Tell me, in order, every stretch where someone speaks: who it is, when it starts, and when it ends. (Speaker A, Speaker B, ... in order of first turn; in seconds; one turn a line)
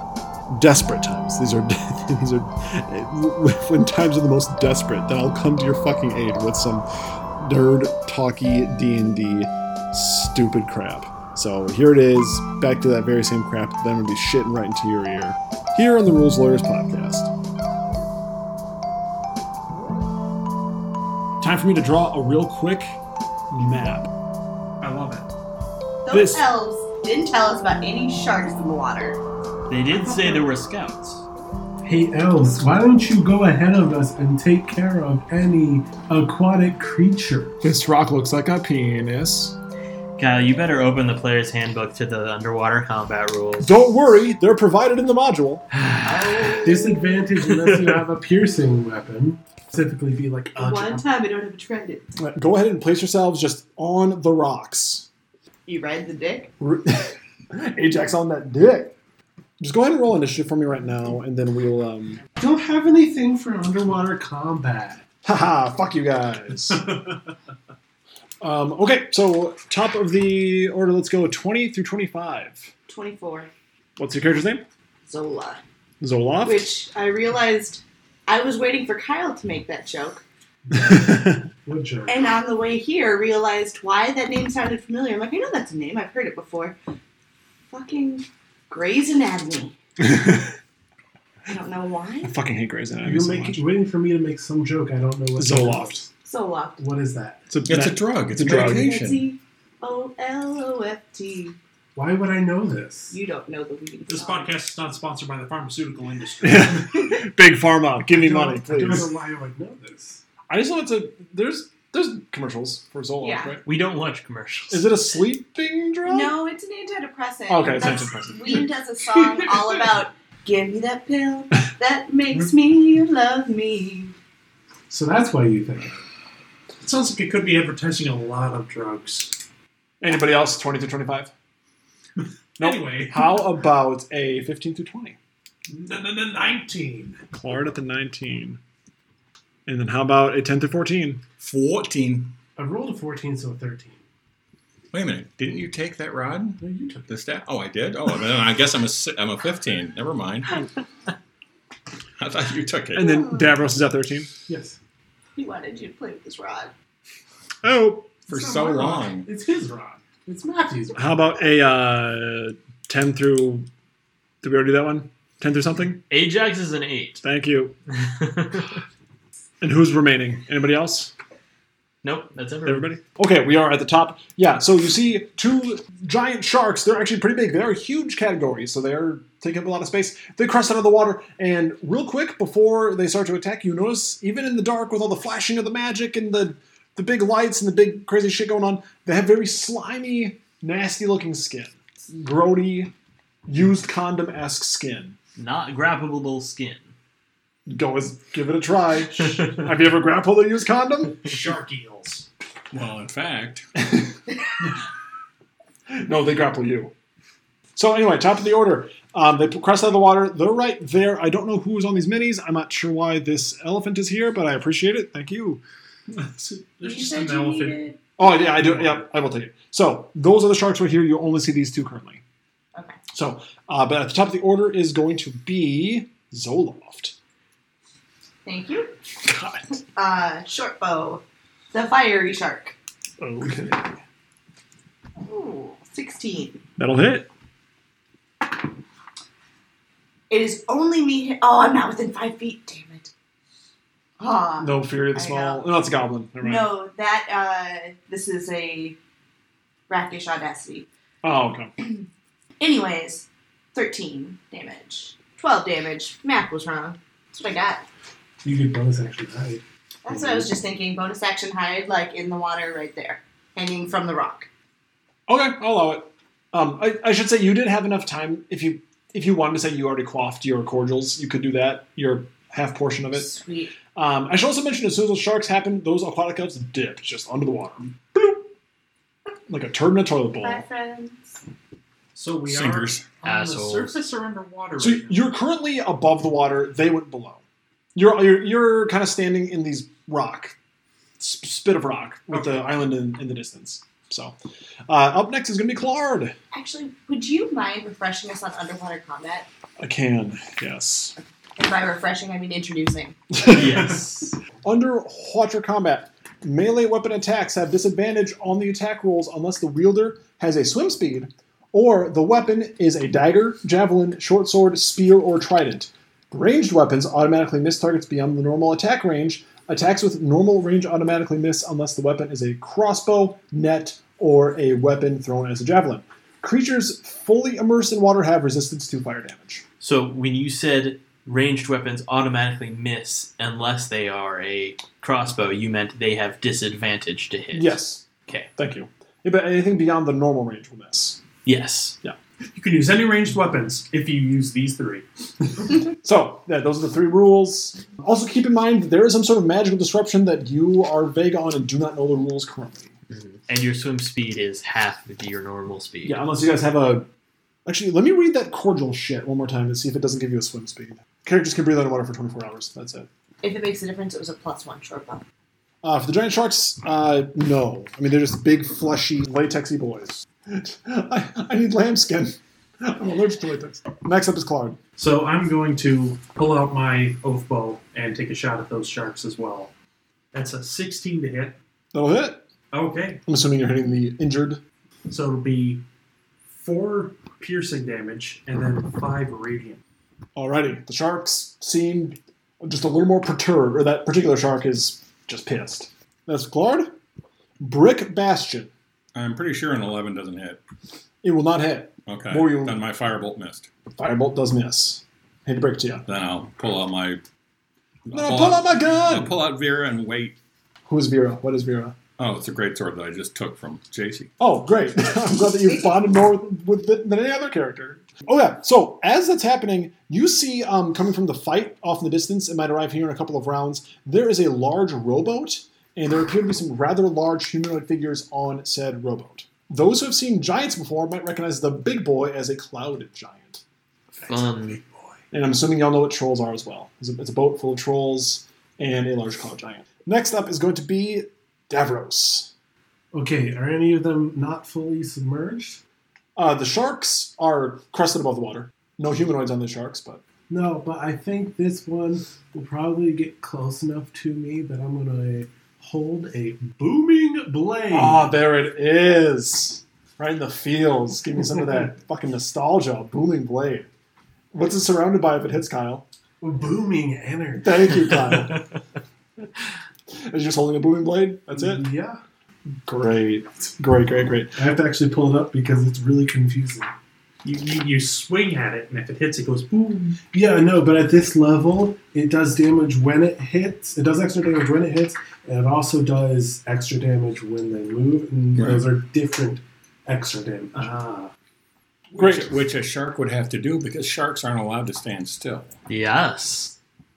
Speaker A: 0.5-6.8
Speaker A: 7.4-17.3
Speaker A: 21.4-23.0
Speaker A: 23.5-24.1
Speaker B: 24.8-25.3
Speaker C: 26.0-29.2
Speaker A: 26.1-26.4
Speaker D: 29.7-31.2
Speaker C: 30.0-30.4
Speaker E: 31.8-37.5
Speaker A: 37.6-39.5
Speaker D: 40.2-43.7
Speaker A: 43.6-45.6
Speaker D: 45.7-46.6
Speaker C: 46.0-47.0
Speaker E: 46.6-51.0
Speaker D: 47.4-48.0
Speaker C: 50.6-52.1
Speaker A: 52.2-55.1
Speaker C: 55.7-56.5
Speaker A: 56.6-58.9
Speaker A: 59.6-62.2
Speaker E: 62.4-65.0
Speaker A: 65.2-66.8
Speaker A: 68.4-72.7
Speaker C: 72.9-73.5
Speaker A: 74.0-74.6
Speaker C: 75.0-75.6
Speaker A: 76.0-76.7
Speaker C: 76.4-80.2
Speaker E: 80.7-82.2
Speaker A: 80.7-81.4
Speaker C: 82.1-86.8
Speaker C: 87.7-89.7
Speaker A: 90.0-90.5
Speaker C: 91.5-92.3
Speaker A: 92.2-93.6
Speaker E: 93.0-96.1
Speaker A: 95.4-96.0
Speaker C: 96.2-96.8
Speaker E: 96.8-97.4
Speaker A: 97.5-98.9
Speaker F: 97.6-99.2
Speaker C: 98.4-101.6
Speaker E: 101.9-103.2
Speaker C: 103.1-104.5
Speaker B: 104.1-107.1
Speaker A: 106.4-109.1
Speaker E: 108.1-110.2
Speaker A: 110.5-113.6
Speaker C: 113.2-113.6
Speaker D: 113.6-114.9
Speaker A: 114.7-116.3
Speaker C: 116.1-124.1
Speaker A: 117.5-118.6
Speaker E: 124.9-126.0
Speaker B: 126.8-129.4
Speaker A: 130.0-131.3
Speaker B: 132.6-133.4
Speaker A: 132.6-135.2
Speaker B: 135.7-137.2
Speaker A: 137.3-138.6
Speaker A: 139.7-141.2
Speaker F: 141.4-142.3
Speaker E: 142.6-144.0
Speaker F: 144.9-150.6
Speaker E: 146.6-147.1
Speaker F: 152.2-153.1
Speaker A: 152.9-154.3
Speaker C: 153.0-153.6
Speaker E: 154.5-154.8
Speaker C: 155.3-156.7
Speaker A: 157.6-158.1
Speaker F: 158.3-159.3
Speaker E: 158.3-161.3
Speaker A: 160.9-163.7
Speaker A: 164.4-166.0
Speaker D: 166.1-167.2
Speaker A: 167.2-167.8
Speaker D: 168.0-168.7
Speaker A: 169.6-171.1
Speaker D: 172.0-172.9
Speaker A: 172.7-192.9
Speaker A: 193.5-195.2
Speaker D: 195.4-196.9
Speaker A: 197.7-201.4
Speaker B: 201.2-202.3
Speaker F: 202.7-203.7
Speaker A: 203.8-204.1
Speaker A: 205.9-206.9
Speaker A: 207.7-215.6
Speaker B: 216.2-217.9
Speaker C: 216.8-218.0
Speaker A: 218.2-222.2
Speaker B: 218.6-219.0
Speaker A: 223.1-227.2
Speaker C: 228.4-228.9
Speaker A: 229.2-229.6
Speaker C: 229.9-232.8
Speaker A: 233.2-233.9
Speaker C: 235.2-236.6
Speaker A: 236.8-237.3
Speaker C: 240.3-243.1
Speaker C: 244.2-245.7
Speaker A: 244.6-246.7
Speaker C: 246.4-249.0
Speaker C: 249.9-250.9
Speaker A: 251.2-251.7
Speaker C: 252.6-257.9
Speaker E: 258.4-259.6
Speaker C: 260.0-264.5
Speaker A: 265.3-273.3
Speaker C: 273.1-273.7
Speaker A: 273.9-278.4
Speaker A: 279.5-280.6
Speaker C: 280.4-281.4
Speaker B: 282.1-285.3
Speaker F: 282.4-283.1
Speaker D: 283.2-284.0
Speaker A: 284.8-287.4
Speaker A: 287.9-290.6
Speaker A: 291.2-294.4
Speaker B: 292.3-292.7
Speaker A: 294.9-296.3
Speaker C: 296.5-299.5
Speaker A: 299.8-301.1
Speaker C: 301.6-303.2
Speaker A: 303.3-304.0
Speaker D: 303.4-304.4
Speaker A: 304.6-329.6
Speaker D: 329.8-338.5
Speaker A: 337.5-341.2
Speaker D: 341.4-342.0
Speaker B: 342.5-345.6
Speaker A: 346.0-352.9
Speaker D: 353.1-356.2
Speaker A: 356.0-357.1
Speaker A: 357.6-363.1
Speaker C: 363.4-365.2
Speaker A: 365.8-374.8
Speaker B: 375.0-379.7
Speaker B: 380.3-381.6
Speaker A: 381.9-382.4
Speaker B: 382.7-383.2
Speaker A: 383.2-384.6
Speaker B: 385.1-385.8
Speaker B: 386.5-389.8
Speaker A: 390.4-396.9
Speaker A: 397.6-398.7
Speaker F: 399.1-400.6
Speaker A: 401.2-402.8
Speaker F: 402.1-403.7
Speaker A: 403.9-406.0
Speaker F: 406.1-407.2
Speaker F: 408.1-410.4
Speaker A: 408.1-409.4
Speaker A: 410.9-412.0
Speaker F: 412.2-414.3
Speaker A: 414.4-433.6
Speaker D: 434.2-434.8
Speaker A: 435.3-442.5
Speaker E: 443.1-445.8
Speaker A: 446.4-450.2
Speaker E: 450.5-458.3
Speaker A: 457.9-463.9
Speaker A: 464.5-466.0
Speaker E: 466.4-468.3
Speaker A: 467.6-468.6
Speaker A: 470.1-471.9
Speaker E: 471.5-472.2
Speaker A: 472.8-474.6
Speaker E: 474.6-476.9
Speaker B: 477.4-480.2
Speaker E: 480.3-491.0
Speaker F: 488.6-488.8
Speaker B: 490.8-491.3
Speaker F: 492.1-495.7
Speaker A: 492.2-492.5
Speaker D: 495.9-496.7